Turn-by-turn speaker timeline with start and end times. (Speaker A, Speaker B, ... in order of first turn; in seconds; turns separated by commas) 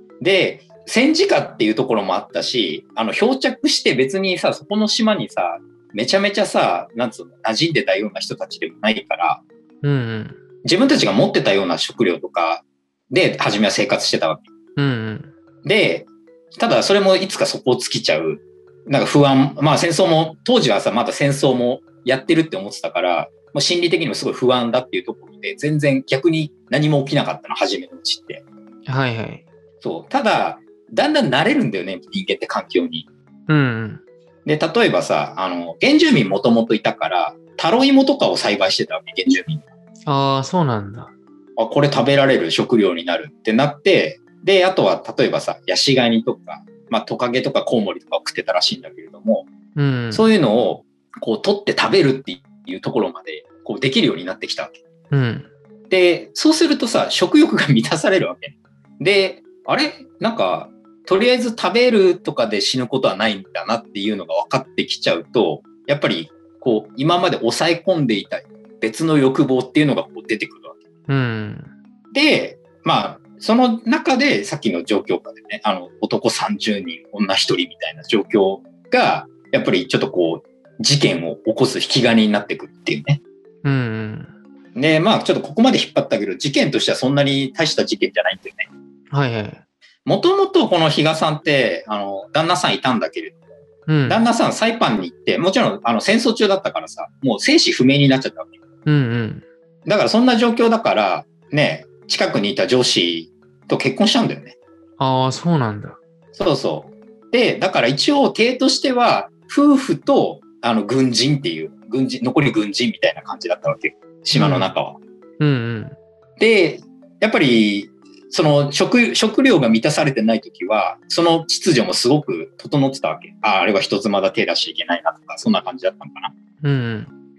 Speaker A: 0.2-9.4, Speaker B: 9.8-10.4, Speaker A: 10.6-14.4, Speaker B: 14.8-15.3, Speaker A: 15.6-28.4, Speaker B: 28.9-29.4, Speaker A: 29.8-33.1, Speaker B: 33.5-34.0, Speaker A: 34.4-39.6, Speaker B: 40.0-41.1, Speaker A: 41.6-49.5, Speaker B: 49.8-50.3, Speaker A: 50.1-54.8, Speaker B: 55.1-55.5, Speaker A: 55.9-70.8, Speaker B: 71.1-71.7, Speaker A: 72.1-83.2, Speaker B: 83.6-84.3, Speaker A: 84.7-88.7, Speaker B: 89.1-89.6, Speaker A: 90.0-93.4, Speaker B: 93.9-94.2, Speaker A: 94.0-98.5, Speaker B: 98.8-99.4, Speaker A: 99.8-104.5, Speaker B: 105.0-106.0, Speaker A: 106.3-115.0, Speaker B: 114.3-114.7, Speaker B: 115.4-116.0, Speaker A: 116.4-126.3, Speaker B: 126.6-127.1